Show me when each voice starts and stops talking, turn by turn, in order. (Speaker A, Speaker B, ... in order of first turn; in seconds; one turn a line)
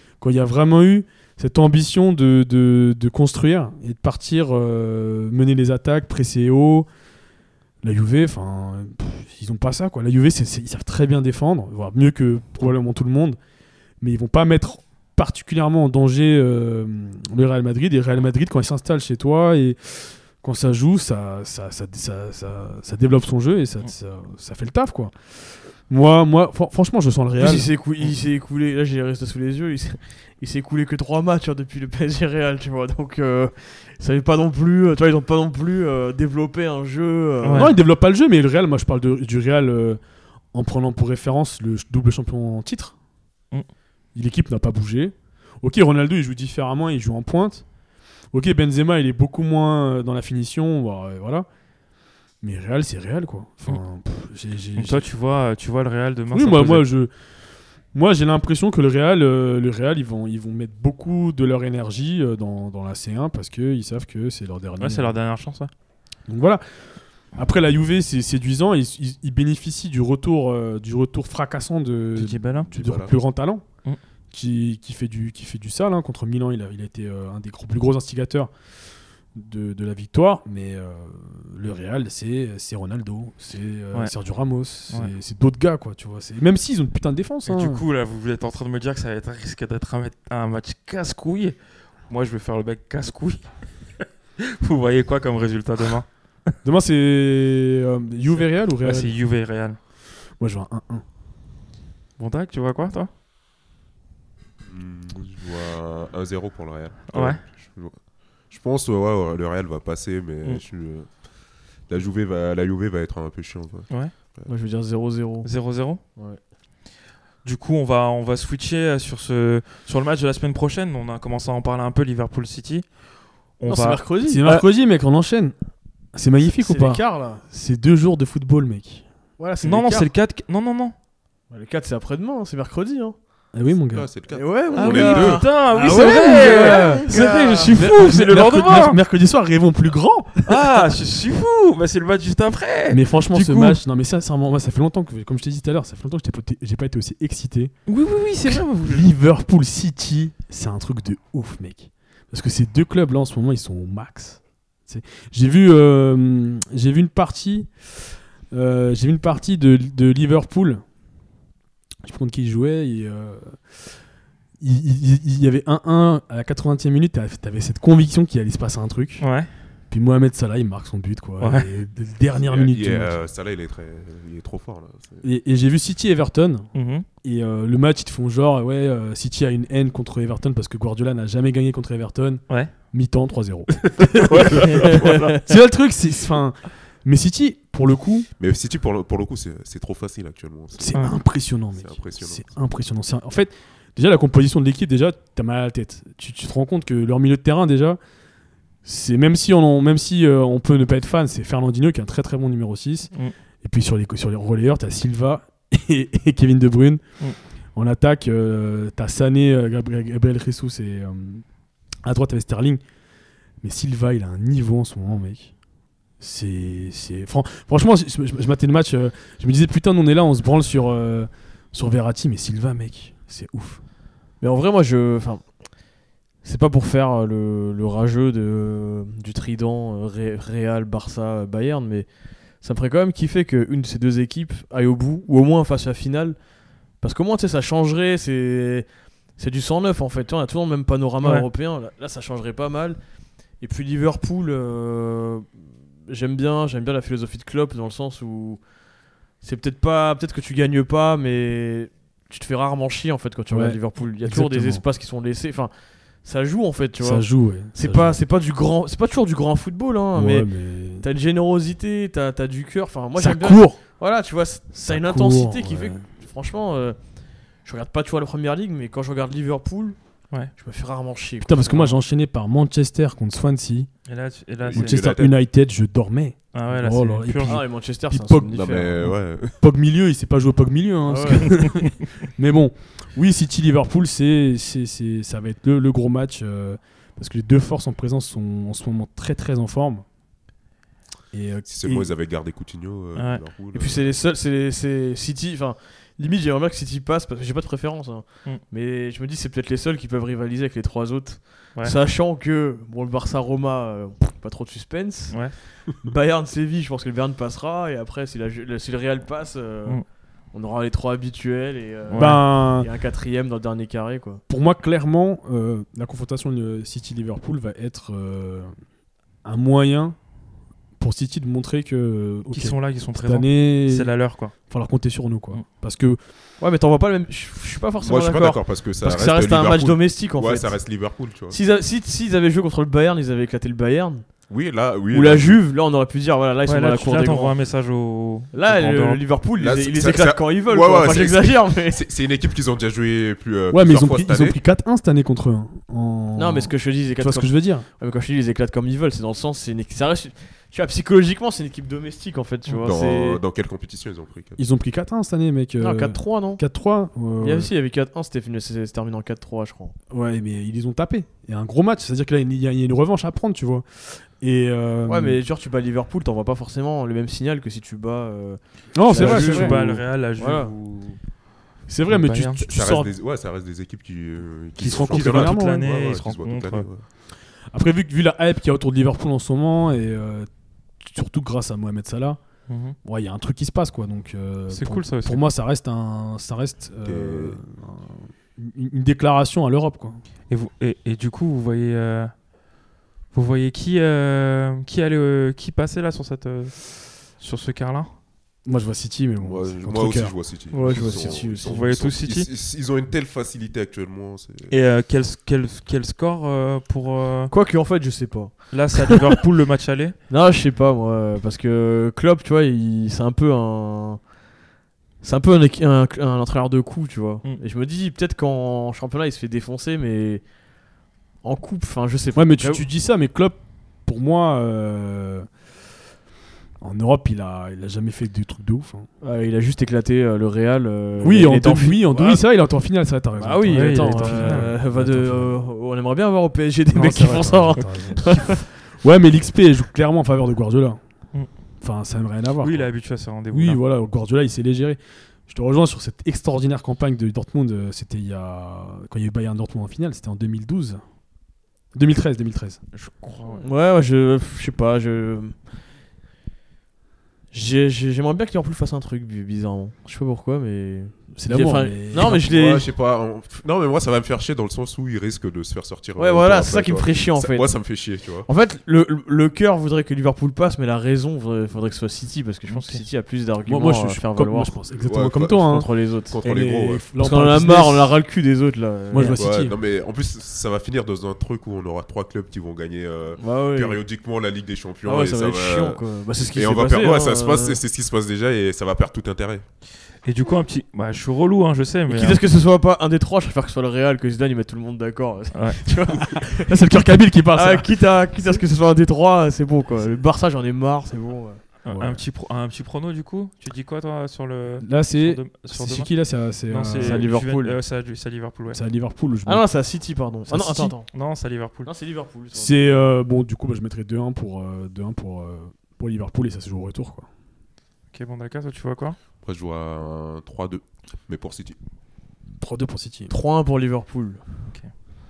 Speaker A: 0.2-6.9
Speaker A: 7.8-13.4
Speaker A: 14.0-25.1
Speaker A: 25.9-27.7
Speaker B: 27.4-37.7
Speaker C: 37.4-37.7
Speaker A: 37.5-40.0
Speaker A: 40.5-42.9
Speaker A: 44.1-47.6
Speaker A: 48.3-51.5
Speaker A: 52.4-55.0
Speaker C: 54.8-56.9
Speaker A: 56.3-57.1
Speaker A: 57.9-65.1
Speaker C: 64.8-65.7
Speaker A: 66.3-66.8
Speaker A: 67.3-73.6
Speaker C: 72.2-72.7
Speaker D: 72.6-73.1
Speaker A: 74.3-78.5
Speaker A: 79.3-87.8
Speaker C: 87.5-91.6
Speaker C: 92.1-96.1
Speaker A: 96.6-99.1
Speaker C: 98.3-99.8
Speaker A: 100.4-101.0
Speaker C: 102.2-103.1
Speaker D: 104.6-108.0
Speaker C: 107.1-107.4
Speaker D: 108.5-111.1
Speaker D: 111.9-114.5
Speaker B: 114.5-115.5
Speaker C: 115.4-116.0
Speaker C: 117.4-122.9
Speaker C: 123.6-124.6
Speaker B: 123.7-124.4
Speaker A: 124.2-125.5
Speaker A: 126.1-129.1
Speaker B: 126.6-127.4
Speaker B: 129.4-130.0
Speaker C: 129.6-130.9
Speaker B: 131.5-133.2
Speaker A: 133.5-134.1
Speaker D: 133.9-135.5
Speaker B: 134.3-137.8
Speaker C: 134.8-139.0
Speaker A: 135.7-137.2
Speaker A: 137.7-140.6
Speaker C: 140.4-143.8
Speaker A: 142.9-147.7
Speaker C: 147.9-149.1
Speaker A: 148.4-160.8
Speaker A: 162.0-163.9
Speaker A: 164.6-169.2
Speaker C: 169.2-169.5
Speaker A: 169.9-173.1
Speaker C: 171.4-171.7
Speaker D: 172.4-175.2
Speaker A: 175.2-176.7
Speaker C: 176.7-177.1
Speaker A: 177.2-188.3
Speaker C: 183.8-185.4
Speaker B: 184.9-185.2
Speaker D: 188.4-191.0
Speaker A: 190.8-198.0
Speaker D: 191.8-192.5
Speaker A: 198.8-203.1
Speaker A: 203.6-207.0
Speaker A: 207.7-211.4
Speaker A: 212.0-212.8
Speaker A: 213.6-215.5
Speaker A: 216.2-223.8
Speaker B: 224.4-225.7
Speaker B: 226.4-236.4
Speaker B: 237.0-243.0
Speaker B: 243.6-248.6
Speaker B: 249.4-267.0
Speaker A: 253.5-254.8
Speaker A: 257.0-258.2
Speaker A: 260.1-261.0
Speaker A: 263.1-263.8
Speaker A: 264.8-266.0
Speaker B: 267.6-270.0
Speaker B: 270.5-272.0
Speaker A: 271.4-273.9
Speaker C: 274.1-275.0
Speaker D: 274.6-275.3
Speaker A: 274.7-278.5
Speaker C: 276.5-277.6
Speaker B: 277.5-279.1
Speaker D: 278.5-279.6
Speaker A: 279.6-290.0
Speaker B: 281.1-281.7
Speaker A: 291.3-292.1
Speaker D: 291.7-294.1
Speaker C: 293.1-293.4
Speaker B: 293.7-314.4
Speaker C: 312.1-312.4
Speaker A: 312.1-312.9
Speaker A: 314.5-318.8
Speaker A: 319.4-320.2
Speaker A: 321.0-324.1
Speaker C: 322.5-324.5
Speaker A: 324.7-326.2
Speaker B: 326.6-330.8
Speaker D: 328.0-331.6
Speaker B: 331.5-334.4
Speaker D: 334.5-335.6
Speaker B: 335.1-337.6
Speaker C: 336.6-339.2
Speaker B: 338.5-342.0
Speaker D: 339.6-344.6
Speaker A: 343.7-347.9
Speaker B: 346.4-353.4
Speaker D: 352.8-354.6
Speaker A: 354.6-357.7
Speaker B: 355.8-356.6
Speaker B: 357.4-359.9
Speaker A: 360.1-365.4
Speaker B: 365.1-370.7
Speaker A: 368.9-370.0
Speaker C: 369.1-371.2
Speaker A: 371.9-373.1
Speaker C: 372.1-372.6
Speaker D: 372.7-377.0
Speaker C: 374.8-376.9
Speaker A: 374.8-375.8
Speaker A: 377.7-380.5
Speaker A: 381.0-382.4
Speaker C: 382.7-382.9
Speaker A: 383.0-390.2
Speaker C: 384.7-385.4
Speaker D: 387.0-387.6
Speaker C: 390.5-392.3
Speaker C: 393.3-398.1
Speaker A: 398.6-400.3
Speaker D: 399.4-404.7
Speaker B: 400.7-401.9
Speaker C: 401.2-402.5
Speaker C: 404.7-407.5
Speaker B: 407.5-409.3
Speaker C: 408.7-410.1
Speaker B: 410.3-414.2
Speaker B: 415.2-420.4
Speaker B: 421.4-422.8
Speaker A: 422.3-425.5
Speaker A: 426.8-429.1
Speaker B: 429.2-432.4
Speaker A: 431.2-435.6
Speaker B: 433.4-438.6
Speaker C: 433.6-434.7
Speaker A: 436.9-441.0
Speaker A: 441.8-442.9
Speaker C: 442.6-443.8
Speaker A: 443.5-451.0
Speaker A: 451.9-452.8
Speaker C: 452.9-453.6
Speaker B: 453.5-455.6
Speaker B: 457.5-462.8
Speaker A: 461.4-462.4
Speaker D: 462.2-468.5
Speaker B: 466.2-474.7
Speaker C: 472.7-473.0
Speaker A: 473.6-475.9
Speaker D: 475.0-477.0
Speaker B: 475.6-476.6
Speaker A: 476.4-478.1
Speaker B: 477.2-479.4
Speaker A: 479.1-479.7
Speaker D: 479.3-489.6
Speaker B: 483.4-484.0
Speaker B: 485.0-487.8
Speaker C: 490.2-492.4
Speaker B: 492.1-501.6
Speaker C: 495.5-495.8
Speaker A: 496.3-497.9
Speaker C: 501.8-506.1
Speaker A: 501.9-502.2
Speaker A: 504.8-507.5
Speaker C: 506.7-508.8
Speaker B: 506.9-507.8
Speaker A: 508.7-509.6
Speaker B: 509.4-511.1
Speaker A: 510.5-510.9
Speaker C: 511.1-511.9
Speaker B: 511.8-513.0
Speaker A: 512.5-517.3
Speaker C: 518.1-519.2
Speaker D: 519.4-521.8
Speaker A: 522.6-523.3
Speaker B: 523.3-524.4
Speaker C: 524.7-524.9